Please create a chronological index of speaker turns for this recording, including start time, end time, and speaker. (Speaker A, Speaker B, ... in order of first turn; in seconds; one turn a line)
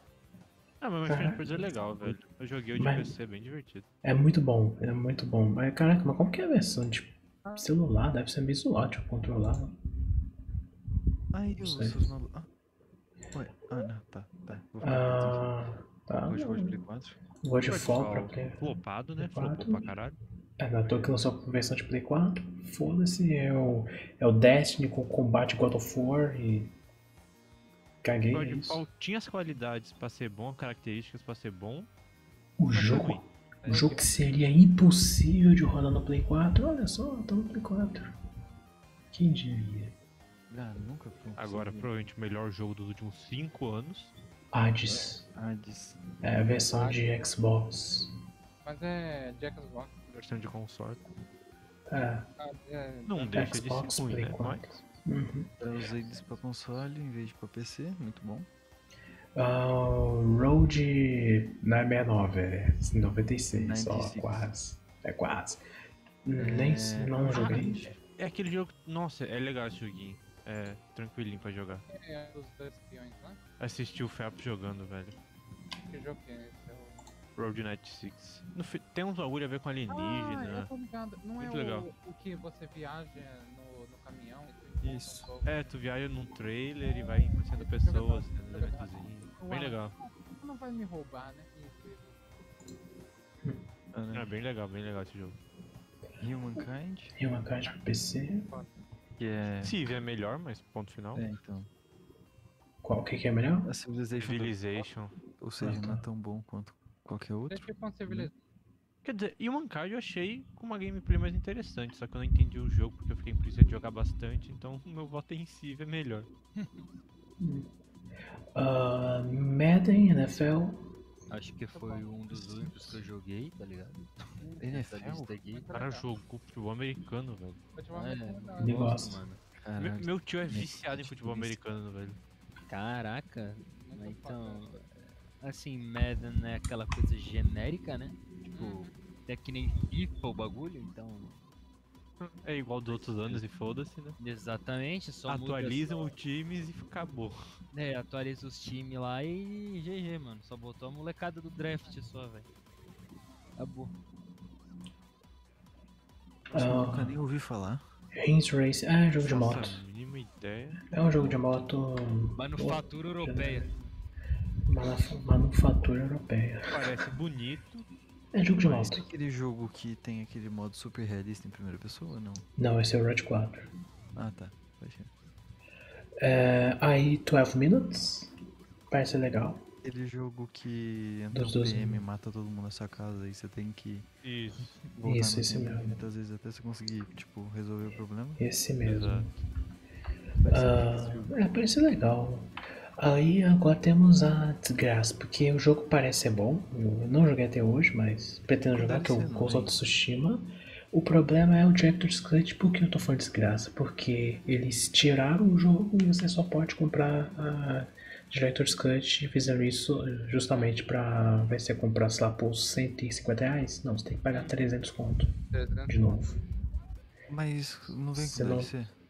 Speaker A: 0.8-3.9
Speaker B: 1.0-1.7
Speaker B: 2.8-3.1
Speaker B: 4.0-9.8
Speaker C: 7.4-7.7
Speaker D: 11.3-12.5
Speaker B: 11.6-12.0
Speaker D: 13.3-15.5
Speaker B: 14.8-16.8
Speaker D: 16.2-17.2
Speaker B: 17.4-19.9
Speaker A: 17.7-20.2
Speaker B: 20.6-26.7
Speaker B: 28.0-28.8
Speaker A: 28.3-31.9
Speaker B: 32.6-38.1
Speaker C: 32.7-34.4
Speaker A: 32.8-34.0
Speaker B: 39.1-39.9
Speaker D: 40.5-41.9
Speaker A: 41.4-44.1
Speaker B: 44.5-45.2
Speaker D: 44.8-46.0
Speaker B: 46.2-48.1
Speaker C: 46.7-47.1
Speaker C: 48.6-50.3
Speaker A: 50.1-51.0
Speaker B: 51.9-52.3
Speaker C: 52.4-53.6
Speaker A: 53.1-54.7
Speaker B: 53.3-55.5
Speaker D: 55.6-58.5
Speaker B: 59.3-65.6
Speaker D: 63.5-64.5
Speaker B: 66.2-67.9
Speaker D: 66.4-68.0
Speaker A: 67.3-71.8
Speaker C: 71.9-73.4
Speaker A: 73.6-75.2
Speaker C: 75.8-77.1
Speaker A: 77.3-80.7
Speaker C: 79.9-85.8
Speaker A: 81.4-81.9
Speaker D: 84.8-85.3
Speaker A: 85.4-90.0
Speaker C: 86.9-92.4
Speaker D: 93.9-94.3
Speaker A: 94.1-95.4
Speaker D: 96.2-97.1
Speaker B: 97.2-98.5
Speaker C: 98.3-98.8
Speaker D: 99.2-99.8
Speaker A: 99.6-101.3
Speaker D: 101.1-101.7
Speaker B: 102.8-103.7
Speaker D: 103.6-104.6
Speaker A: 104.1-105.2
Speaker D: 105.3-108.3
Speaker B: 105.6-106.0
Speaker C: 107.5-108.3
Speaker A: 109.0-116.3
Speaker B: 117.4-117.7
Speaker B: 118.5-120.9
Speaker E: 121.3-125.7
Speaker C: 121.7-122.2
Speaker C: 124.4-124.7
Speaker D: 124.6-125.3
Speaker C: 125.5-126.1
Speaker A: 125.7-127.6
Speaker C: 127.7-129.0
Speaker E: 127.9-129.4
Speaker B: 128.6-129.2
Speaker D: 129.6-131.6
Speaker A: 129.8-132.2
Speaker E: 132.7-141.4
Speaker C: 133.7-134.8
Speaker C: 138.5-139.0
Speaker A: 142.2-144.2
Speaker E: 144.2-146.1
Speaker A: 145.3-147.4
Speaker E: 147.7-152.5
Speaker E: 153.6-153.9
Speaker D: 156.5-157.8
Speaker B: 156.5-157.2
Speaker B: 158.1-159.8
Speaker D: 159.2-159.8
Speaker A: 159.3-160.8
Speaker B: 160.9-163.7
Speaker E: 162.3-163.7
Speaker B: 164.7-166.9
Speaker A: 166.7-167.8
Speaker B: 168.3-169.1
Speaker D: 168.6-172.4
Speaker B: 172.6-173.7
Speaker D: 174.1-175.1
Speaker B: 176.2-178.3
Speaker B: 178.9-179.7
Speaker D: 179.8-184.1
Speaker B: 181.3-182.0
Speaker A: 184.2-184.8
Speaker D: 184.8-188.4
Speaker B: 185.0-186.0
Speaker B: 188.4-189.3
Speaker A: 188.8-189.4
Speaker D: 190.4-191.4
Speaker B: 190.4-215.3
Speaker D: 198.7-199.8
Speaker C: 210.5-210.8
Speaker C: 214.3-214.6
Speaker C: 215.5-216.3
Speaker B: 215.9-216.4
Speaker D: 217.3-218.9
Speaker B: 218.1-218.7